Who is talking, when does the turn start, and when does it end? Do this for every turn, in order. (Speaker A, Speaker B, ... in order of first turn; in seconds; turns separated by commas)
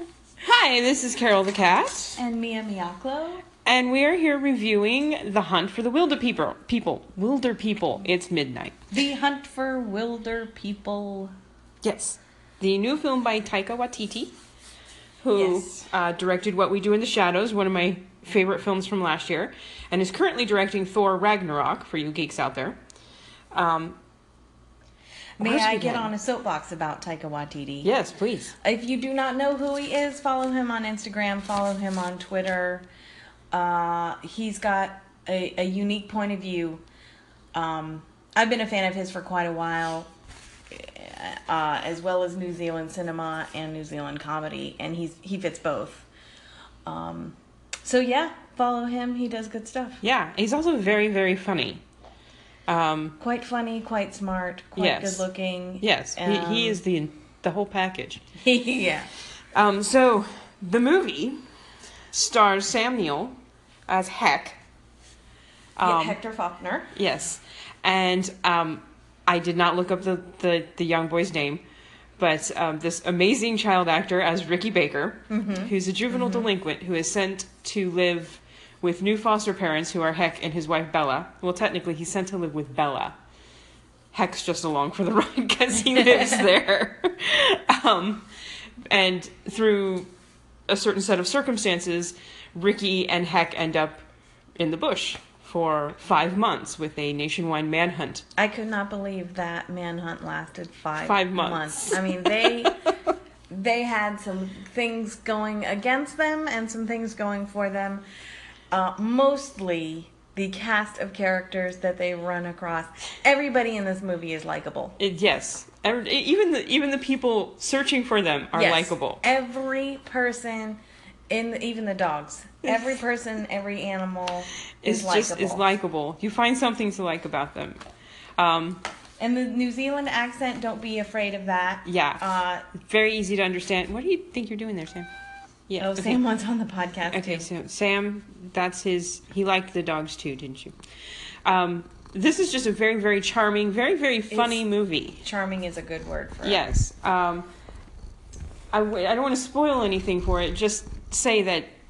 Speaker A: 0.4-2.2, Speaker B: 2.2-3.4, Speaker A: 3.6-8.8, Speaker B: 8.9-11.3, Speaker A: 11.8-14.3, Speaker A: 15.2-22.8, Speaker B: 15.3-15.8, Speaker A: 23.5-24.0, Speaker B: 25.4-27.9, Speaker A: 25.4-26.1, Speaker A: 27.8-28.5, Speaker B: 28.6-32.9, Speaker B: 33.5-36.8, Speaker B: 37.5-40.1, Speaker B: 40.7-46.1, Speaker B: 46.9-50.0, Speaker A: 50.0-51.8, Speaker A: 52.7-53.2, Speaker B: 53.2-56.8, Speaker A: 54.8-55.3, Speaker A: 55.8-58.2, Speaker B: 58.4-59.1, Speaker A: 59.5-61.4, Speaker A: 62.1-63.4, Speaker A: 63.9-64.6, Speaker A: 65.8-66.2, Speaker B: 65.8-66.9, Speaker A: 66.9-71.6, Speaker A: 72.2-83.2, Speaker B: 75.3-76.4, Speaker A: 84.1-88.3, Speaker B: 86.0-86.2, Speaker A: 88.9-90.1, Speaker A: 90.7-94.0, Speaker A: 94.6-98.2, Speaker B: 98.4-102.7, Speaker A: 101.0-102.7, Speaker B: 103.5-108.0, Speaker B: 108.7-115.0, Speaker A: 115.0-119.2, Speaker B: 118.5-125.7, Speaker A: 122.7-122.9, Speaker A: 124.8-127.8, Speaker A: 128.4-128.8, Speaker B: 129.2-132.7, Speaker A: 131.8-132.2, Speaker A: 132.7-135.1, Speaker A: 135.7-136.2, Speaker B: 135.8-137.5, Speaker A: 137.1-140.7, Speaker A: 141.4-145.2, Speaker B: 144.3-144.7, Speaker B: 145.2-146.6, Speaker A: 146.4-147.5, Speaker A: 148.7-151.7